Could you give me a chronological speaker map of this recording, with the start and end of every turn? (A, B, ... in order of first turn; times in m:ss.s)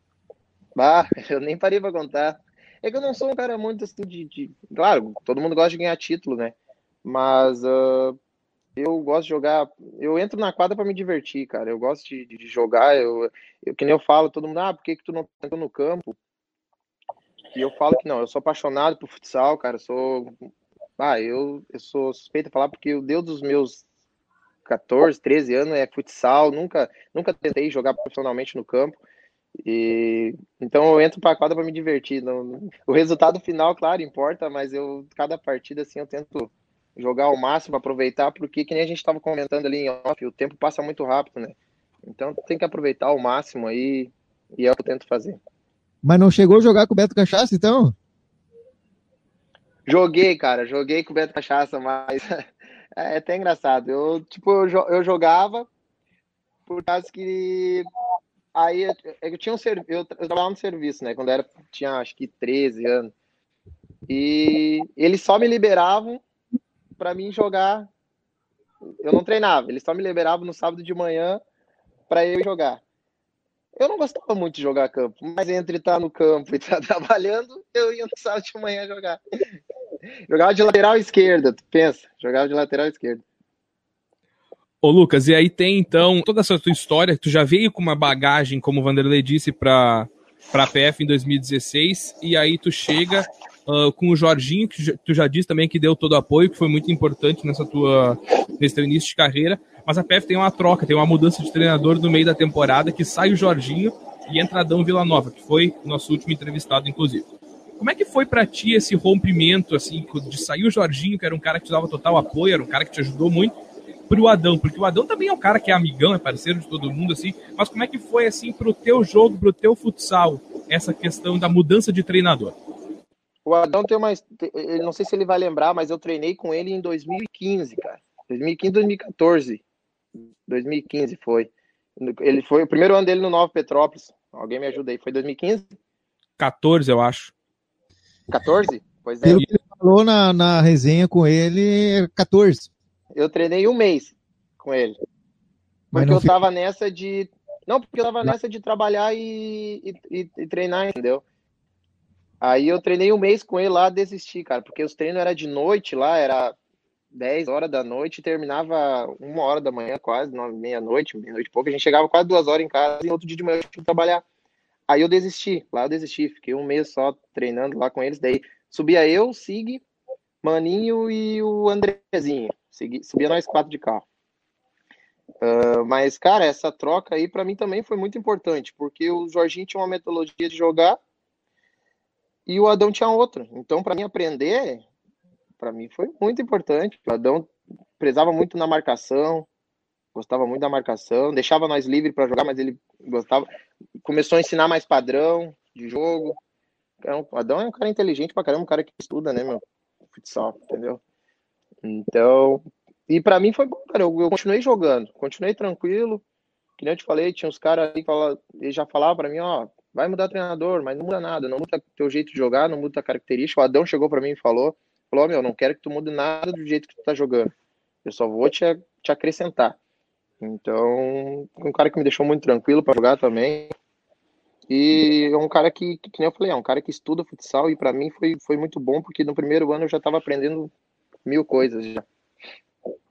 0:00.8-0:08.2 A
0:08.8-0:16.2 A
0:17.5-0:20.3 A
0:21.0-0:23.8 A
0:24.6-0:29.0 A
0:29.6-0:45.4 A
0:46.0-0:48.0 B
0:49.9-0:52.4 A
0:53.0-0:55.7 A
0:56.6-0:57.9 A
0:58.5-1:03.1 A
1:04.1-1:06.2 A
1:07.0-1:07.9 A
1:09.0-1:11.4 A
1:12.1-1:12.8 A
1:13.8-1:19.2 A
1:20.3-1:23.2 A
1:24.8-1:47.2 C
1:47.8-1:53.5 C
1:54.1-2:02.5 C
2:03.4-2:09.6 A
2:10.5-2:15.7 A
2:16.4-2:17.3 C
2:18.3-2:19.4 A
2:19.2-2:22.7 B
2:23.2-2:25.0 A
2:25.9-2:31.2 A
2:25.9-2:26.4 B
2:32.4-2:36.6 A
2:37.1-2:44.2 A
2:44.9-2:49.8 A
2:50.4-2:54.0 A
2:55.4-3:01.0 A
3:02.5-3:04.8 A
3:05.6-3:09.5 A
3:10.1-3:13.5 A
3:14.0-3:16.4 A
3:17.0-3:19.6 A
3:20.1-3:21.0 A
3:21.8-3:26.2 A
3:26.8-3:37.5 A
3:38.0-3:39.8 A
3:40.4-3:43.7 A
3:44.7-3:50.7 A
3:51.2-3:52.0 A